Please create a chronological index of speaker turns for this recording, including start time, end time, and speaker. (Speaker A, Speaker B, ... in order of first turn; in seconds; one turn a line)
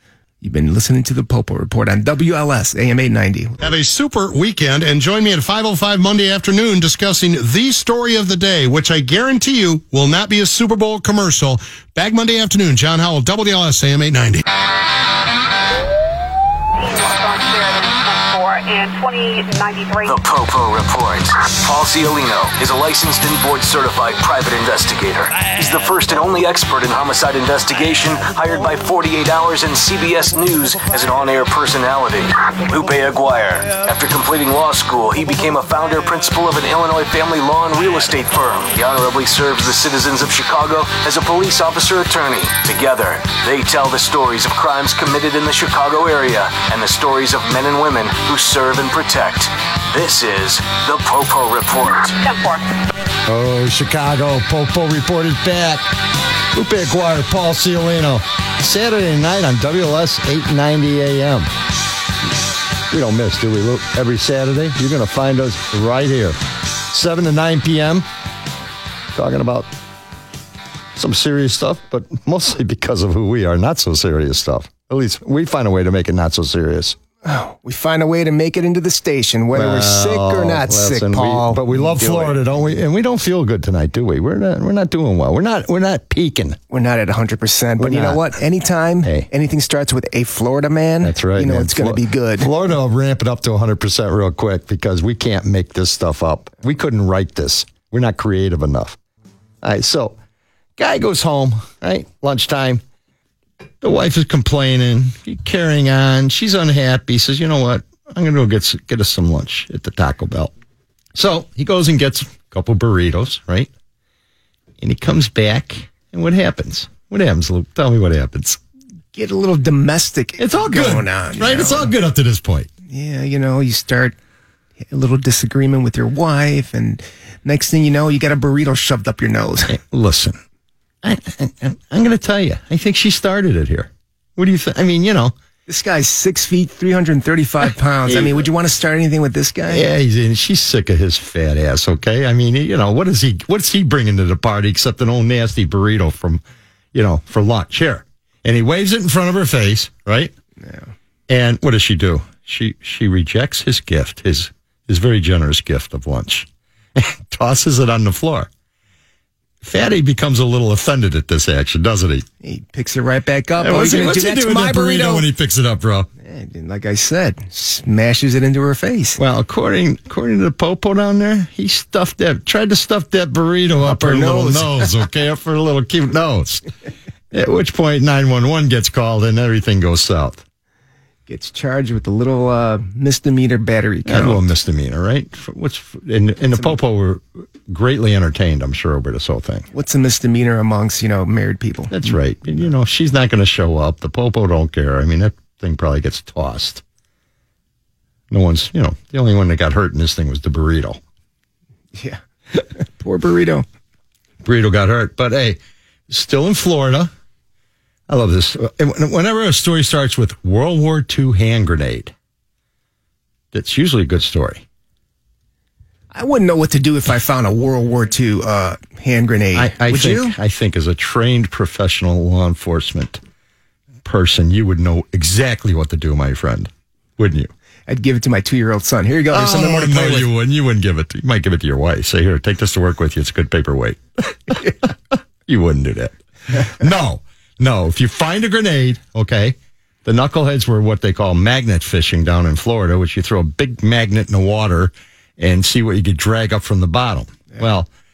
Speaker A: 0.4-3.6
Speaker B: 3.6-14.4
Speaker C: 16.8-20.1
Speaker D: 20.1-52.2
Speaker C: 52.2-52.7
Speaker E: 53.3-55.9
Speaker E: 56.5-61.5
Speaker E: 62.9-66.4
Speaker E: 66.9-68.1
Speaker E: 69.1-69.7
Speaker E: 71.0-77.0
Speaker A: 77.2-82.6
Speaker E: 79.5-86.6
Speaker A: 86.7-92.5
Speaker E: 87.8-88.2
Speaker E: 91.0-99.0
Speaker E: 99.6-100.2
Speaker E: 100.8-102.8
Speaker E: 103.8-110.5
Speaker E: 111.2-113.7
Speaker E: 114.8-118.6
Speaker A: 119.1-121.9
Speaker E: 120.4-122.7
Speaker A: 122.9-124.2
Speaker A: 124.8-129.8
Speaker E: 129.7-130.4
Speaker E: 131.0-135.3
Speaker A: 135.7-139.9
Speaker E: 138.1-138.5
Speaker E: 139.7-146.4
Speaker E: 146.9-150.3
Speaker A: 150.6-150.9
Speaker E: 151.3-158.5
Speaker E: 159.6-162.3
Speaker A: 162.4-165.3
Speaker E: 163.6-166.1
Speaker A: 166.2-169.2
Speaker E: 169.2-176.7
Speaker A: 173.8-174.9
Speaker E: 177.3-180.4
Speaker A: 181.3-184.4
Speaker E: 184.1-189.7
Speaker A: 189.7-192.2
Speaker E: 191.9-196.8
Speaker E: 198.3-201.0
Speaker A: 201.9-202.2
Speaker A: 202.7-203.7
Speaker E: 204.4-207.1
Speaker E: 208.1-212.1
Speaker E: 213.5-214.6
Speaker A: 216.1-220.3
Speaker E: 219.6-223.2
Speaker E: 224.0-227.5
Speaker A: 227.9-230.3
Speaker E: 229.3-247.9